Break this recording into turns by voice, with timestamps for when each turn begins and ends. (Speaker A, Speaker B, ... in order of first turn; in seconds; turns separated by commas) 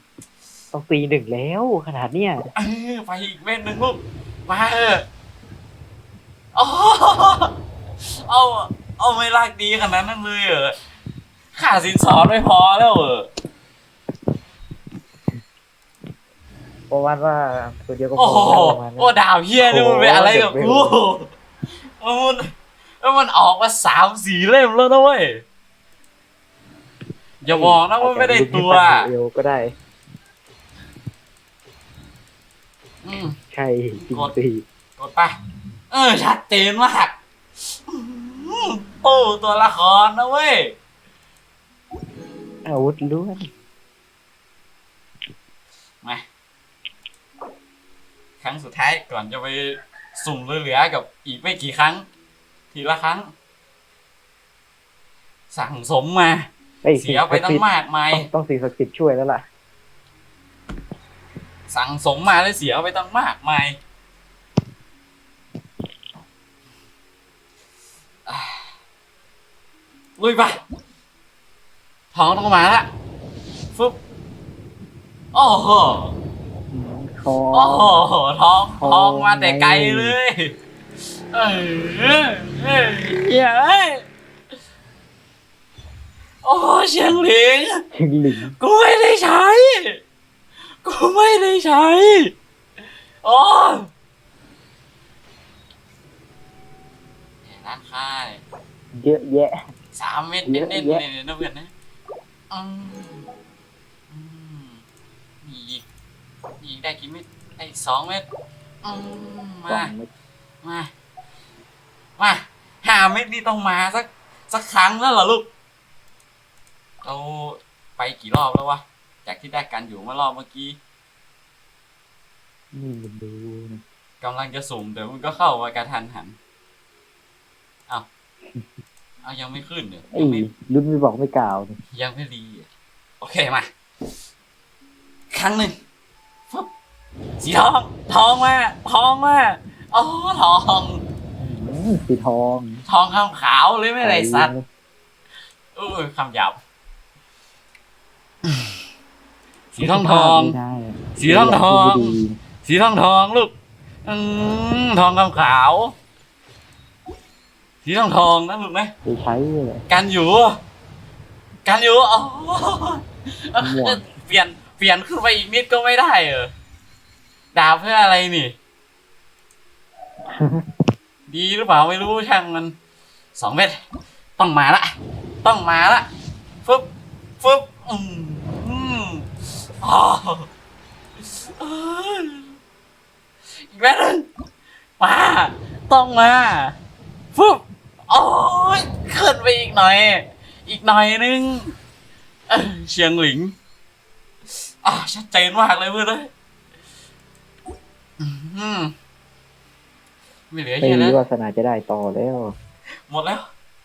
Speaker A: 0.7-2.5, Speaker B: 2.6-5.0, Speaker B: 6.5-10.8, Speaker B: 11.6-13.3, Speaker A: 16.9-21.0, Speaker B: 18.2-21.3, Speaker B: 22.0-25.4, Speaker B: 27.4-29.1, Speaker A: 27.5-29.7, Speaker B: 33.0-33.4, Speaker A: 33.4-34.6, Speaker B: 33.9-34.3, Speaker B: 35.0-35.4, Speaker B: 35.9-37.1, Speaker B: 37.7-40.8, Speaker A: 42.6-43.5, Speaker B: 48.4-52.1, Speaker B: 52.7-53.3, Speaker B: 55.5-58.3, Speaker A: 56.8-59.4, Speaker B: 61.7-63.8, Speaker B: 68.3-68.8, Speaker B: 70.2-70.6, Speaker B: 72.1-72.9, Speaker B: 75.3-76.2, Speaker A: 76.7-78.0, Speaker B: 77.5-80.5, Speaker A: 78.8-80.2, Speaker B: 81.3-84.0, Speaker B: 86.4-87.8, Speaker A: 87.9-88.6, Speaker B: 88.6-90.0, Speaker B: 90.8-92.3, Speaker B: 93.2-93.9, Speaker B: 97.4-98.4, Speaker A: 98.9-99.6, Speaker B: 100.0-101.7, Speaker A: 100.5-101.1, Speaker B: 102.5-103.3, Speaker B: 104.1-104.8, Speaker B: 105.4-105.8, Speaker B: 106.6-108.3, Speaker B: 108.8-109.9, Speaker A: 109.7-110.1, Speaker B: 110.6-110.9, Speaker B: 112.2-115.5, Speaker B: 117.0-120.8, Speaker A: 122.7-123.8, Speaker B: 124.2-126.4, Speaker B: 129.2-130.5, Speaker A: 130.1-131.8, Speaker B: 131.9-132.7, Speaker B: 133.2-133.7, Speaker B: 135.3-135.8, Speaker B: 137.4-141.0, Speaker A: 141.4-142.8, Speaker B: 142.9-144.5, Speaker A: 144.0-144.7, Speaker B: 145.8-146.6, Speaker B: 148.4-148.8, Speaker B: 149.7-150.6, Speaker A: 149.8-152.4, Speaker B: 151.2-153.5, Speaker B: 154.1-155.9, Speaker B: 157.8-158.9, Speaker A: 159.1-159.8, Speaker B: 159.9-160.6, Speaker B: 161.7-166.5, Speaker A: 163.6-164.1, Speaker B: 167.5-168.6, Speaker A: 170.3-170.7, Speaker B: 171.3-172.8, Speaker B: 173.4-173.8, Speaker B: 174.4-174.9, Speaker B: 175.4-176.1, Speaker B: 177.4-179.2, Speaker B: 179.8-180.5, Speaker B: 181.2-182.6, Speaker B: 183.6-184.3, Speaker B: 185.0-186.8, Speaker B: 187.3-191.7, Speaker B: 192.5-193.6, Speaker B: 194.8-196.3, Speaker B: 198.2-198.9, Speaker B: 200.5-201.2, Speaker A: 200.8-202.6, Speaker B: 203.1-203.4